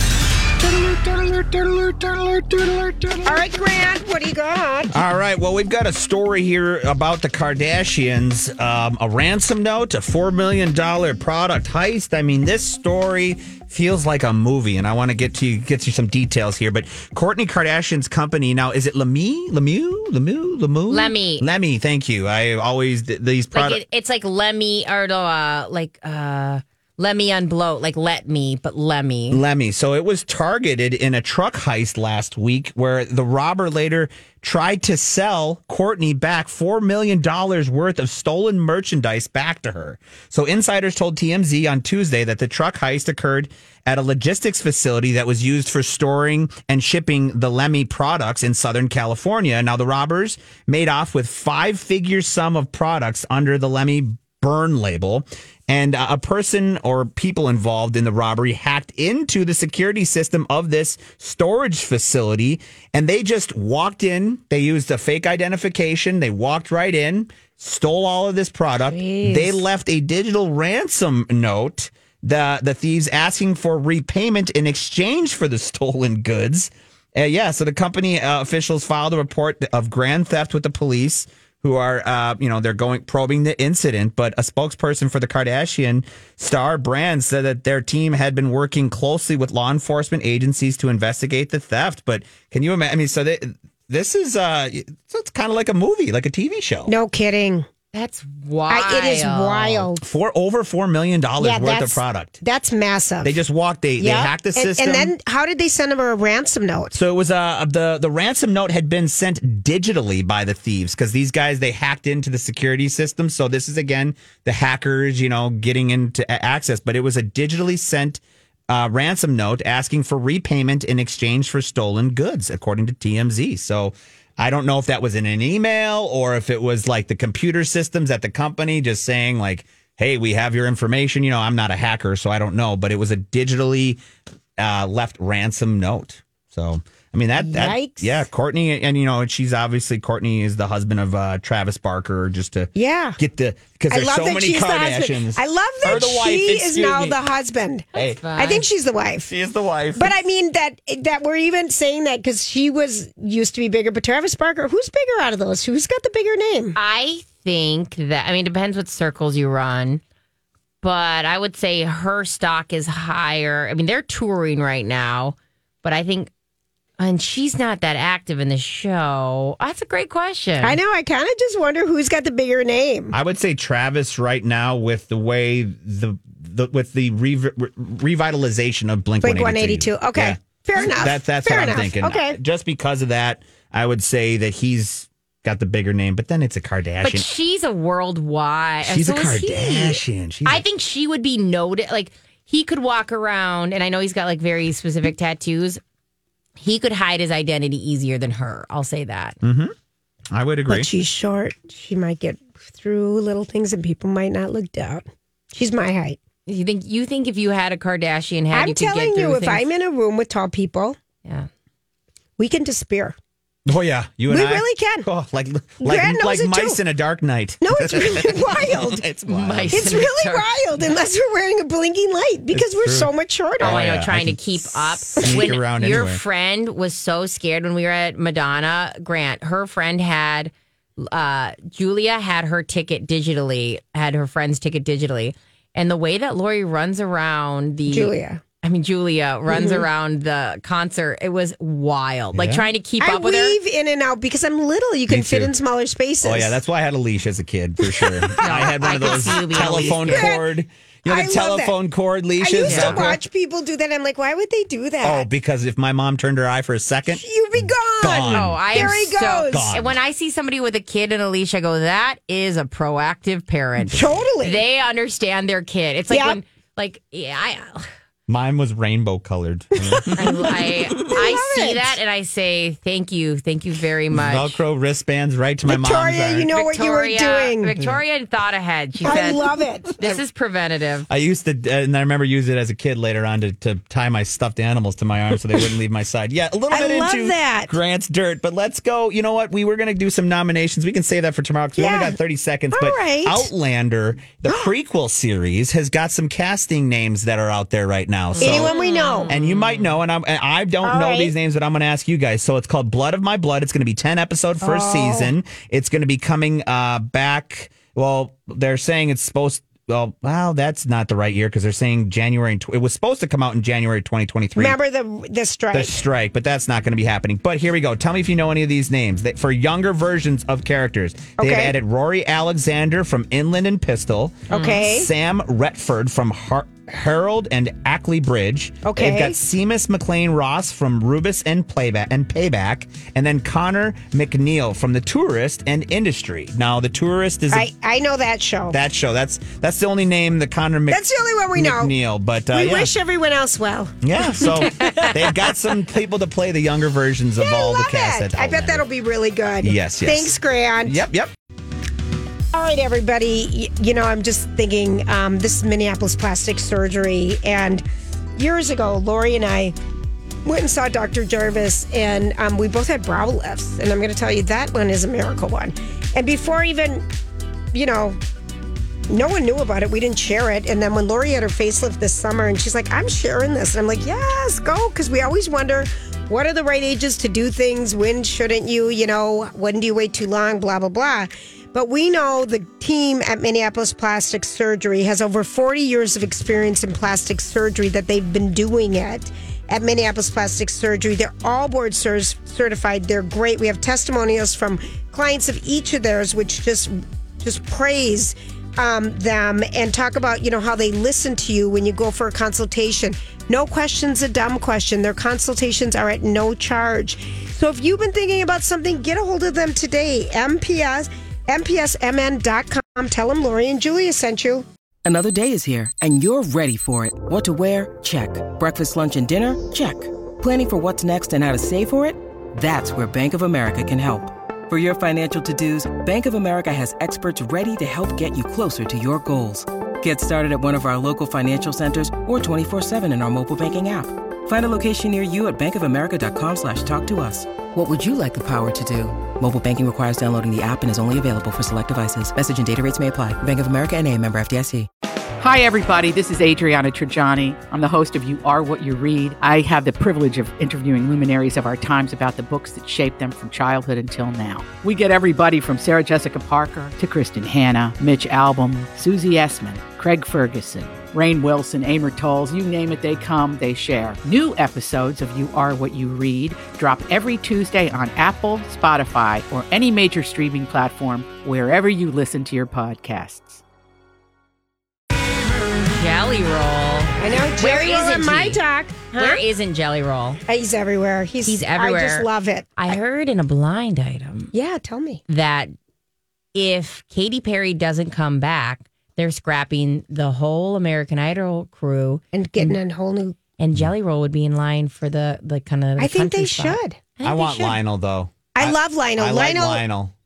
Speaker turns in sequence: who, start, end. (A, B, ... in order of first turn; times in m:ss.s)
0:00.7-0:03.4 A
0:03.2-0:04.9 B
0:04.9-0:23.8 A
0:20.9-0:21.4 C
0:23.5-0:29.4 C
0:29.3-1:36.9 A
1:08.9-1:09.6 B
1:36.9-1:37.6 B
1:37.9-1:39.9 C
1:38.7-1:40.0 B
1:40.0-1:42.4 A
1:41.4-1:43.4 B
1:43.2-1:45.1 A
1:44.0-1:47.0 B
1:46.9-2:14.0 A
2:14.6-2:27.2 A
2:17.4-2:18.3 B
2:22.7-2:23.2 B
2:23.9-2:29.3 B
2:27.9-2:28.2 A
2:27.9-2:28.6 C
2:29.2-2:30.2 A
2:30.0-2:36.8 B
2:36.7-2:40.0 C
2:40.8-2:46.3 C
2:47.0-2:50.8 C
2:50.6-2:53.1 B
2:53.1-3:07.3 A
2:59.2-3:02.4 B
3:07.0-3:15.8 C
3:08.8-3:10.6 A
3:16.6-3:19.4 C
3:19.4-3:19.7 A
3:20.3-3:20.9 A
3:20.7-3:26.2 B
3:26.4-3:29.6 C
3:28.5-3:31.0 B
3:32.4-3:33.1 B
3:33.6-3:39.9 A
3:34.3-3:35.1 B
3:35.8-3:36.8 B
3:37.6-3:39.0 B
3:39.3-3:40.5 C
3:39.7-3:43.8 B
3:42.5-3:46.2 A
3:43.6-4:03.6 C
3:57.9-3:58.4 B
3:59.5-3:59.8 B
4:02.4-4:02.7 A
4:03.0-4:06.6 B
4:05.1-4:05.5 A
4:06.2-4:13.2 A
4:07.9-4:10.4 B
4:08.4-4:10.3 C
4:11.1-4:11.7 B
4:12.4-4:15.2 B
4:12.6-4:13.0 C
4:15.0-4:19.9 A
4:17.1-4:19.8 B
4:18.3-4:27.9 C
4:23.8-4:24.6 B
4:26.1-4:26.4 B
4:28.3-4:30.6 A
4:29.9-4:32.0 B
4:30.2-4:34.6 C
4:34.1-4:36.5 A
4:35.6-4:37.8 B
4:36.5-4:39.4 C
4:39.0-4:40.2 B
4:40.0-4:41.1 C
4:41.1-4:58.8 A
4:46.7-4:47.7 B
4:51.8-4:52.2 B
4:52.7-4:53.5 B
4:54.5-4:54.7 B
4:58.3-4:59.9 C
4:58.4-4:59.3 B
4:59.3-5:14.8 A
5:00.8-5:01.3 B
5:04.6-5:05.3 B
5:14.6-5:16.0 B
5:15.7-5:37.7 A
5:21.4-5:21.7 B
5:24.5-5:24.8 C
5:24.5-5:25.1 B
5:28.8-5:29.4 B
5:37.5-5:38.8 B
5:38.7-5:42.9 A
5:40.9-5:41.9 B
5:42.5-5:45.4 B
5:44.0-5:48.8 A
5:44.8-5:45.1 C
5:47.4-5:51.0 B
5:49.6-5:51.3 A
5:52.5-5:57.8 B
5:58.4-5:59.7 B
6:00.4-6:07.0 B
6:07.7-6:08.2 B
6:09.1-6:54.6 B
6:55.0-7:24.9 D
7:25.4-7:53.6 E
7:55.8-7:58.6 C
7:57.2-7:59.4 B
7:59.1-8:00.4 C
8:00.5-8:02.9 B
8:01.4-8:04.5 C
8:04.5-8:05.2 B
8:05.3-8:05.7 C
8:06.5-8:12.8 C
8:12.3-8:13.4 B
8:13.6-8:17.8 C
8:16.0-8:17.0 B
8:17.2-8:20.1 A
8:18.6-8:19.8 B